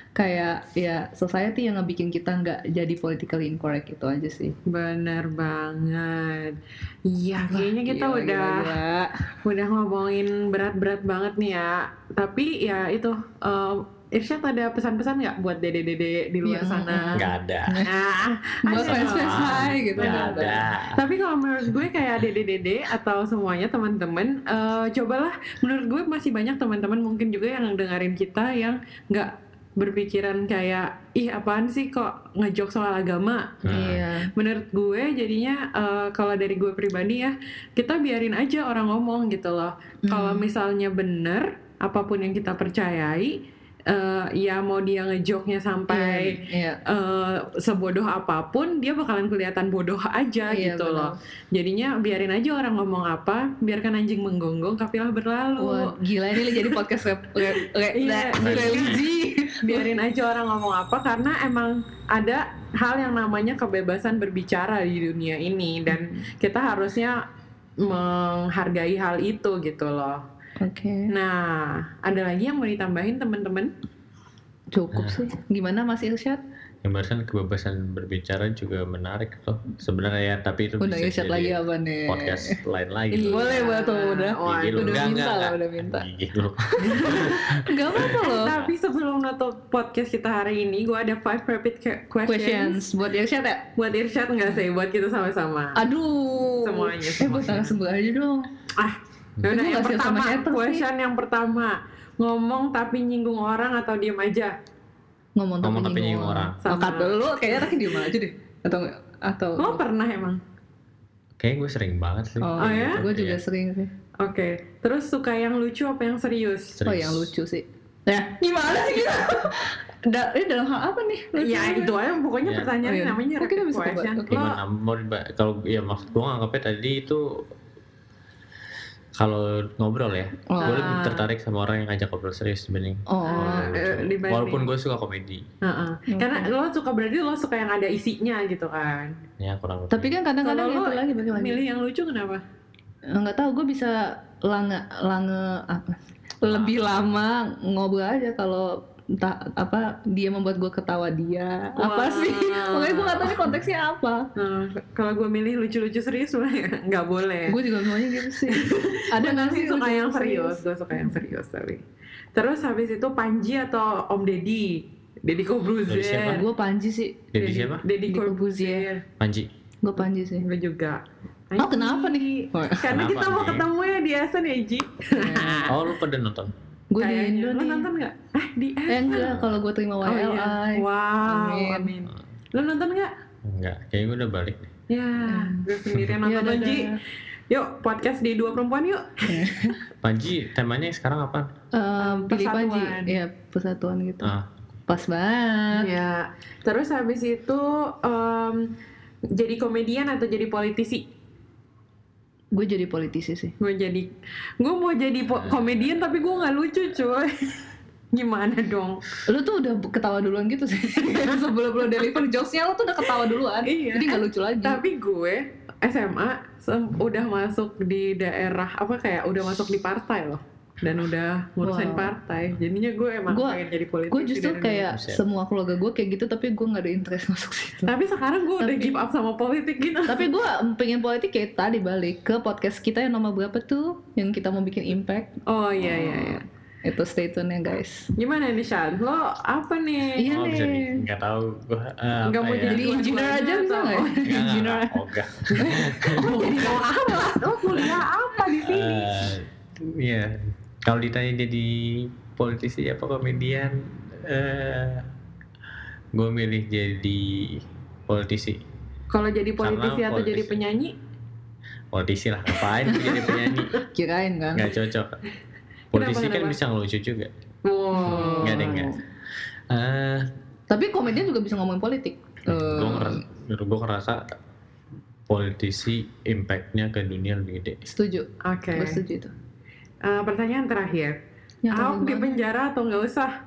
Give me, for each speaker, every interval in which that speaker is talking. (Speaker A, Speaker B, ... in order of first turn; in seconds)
Speaker A: 0.2-4.5, 7.5-9.3, 16.4-17.9, 18.6-20.6, 33.7-34.3, 40.1-40.5, 45.9-46.8, 50.5-51.2, 55.6-59.9, 65.9-66.2, 70.6-71.1, 74.7-76.4, 80.8-82.6, 83.1-86.0, 86.8-88.5, 92.2-93.7, 95.8-98.5, 99.5-100.8, 105.4-109.8, 112.4-113.9, 116.8-121.9, 122.8-124.5, 130.5-131.0, 133.1-133.8, 136.1-136.5, 139.9-141.6, 143.1-154.3, 157.5-161.2, 166.3-167.3, 168.1-168.9, 169.8-170.5, 171.6-172.9, 175.1-175.7, 176.9-177.9, 178.9-181.9, 185.2-185.7, 186.2-187.0, 189.2-189.8, 191.7-194.3, 194.9-195.9, 202.5-203.5, 209.3-214.8, 221.6-222.1, 223.3-223.6, 224.1-227.9, 228.6-229.0, 230.1-238.1, 240.2-241.0, 242.7-245.0, 245.5-247.5, 263.8-264.7, 267.9-269.0, 270.7-273.2, 277.9-279.3, 281.6-282.4
Speaker B: 4.7-8.8, 9.4-17.3, 17.9-56.8, 57.4-59.0, 59.6-67.2, 67.8-70.2, 71.1-73.7, 83.1-85.1, 86.9-87.4, 88.0-92.8, 93.8-95.8, 96.6-97.8, 98.8-104.6, 106.6-107.8, 109.6-110.4, 112.6-113.0, 114.2-116.8, 121.4-124.6, 130.6-131.3, 133.3-134.7, 135.6-139.2, 140.4-142.4, 151.8-153.5, 154.4-161.8, 162.3-166.5, 167.4-169.1, 170.4-175.8, 177.0-179.3, 180.0-183.1, 184.9-186.9, 187.5-189.7, 192.0-193.2, 195.7-198.8, 199.3-201.1, 203.6-207.6, 208.1-209.0, 213.6-224.9, 227.9-230.3, 235.5-236.4, 238.2-240.3, 242.2-244.4, 245.6-249.2, 259.1-260.9, 265.9-266.6, 267.6-268.7, 278.4-279.0, 280.0-281.2, 281.7-283.4
Speaker C: 17.1-17.8, 18.8-21.0, 33.6-34.0, 58.4-59.0, 74.9-75.2, 76.8-83.7, 84.4-88.7, 105.6-106.6, 111.4-113.4, 116.8-117.3, 122.4-122.8, 124.3-127.4, 129.2-135.4, 139.4-140.2, 146.4-147.2, 165.9-166.5, 167.3-167.9, 169.2-169.5, 172.8-173.7, 175.7-176.5, 179.1-179.6, 183.4-184.7, 190.0-191.5, 194.2-194.5, 224.9-225.2, 240.3-242.9, 244.2-246.4, 248.6-255.1, 256.1-258.6, 259.6-260.6, 261.9-263.8, 264.6-265.2, 265.9-267.3, 268.0-268.9, 269.7-270.3, 272.5-274.3, 275.3-277.8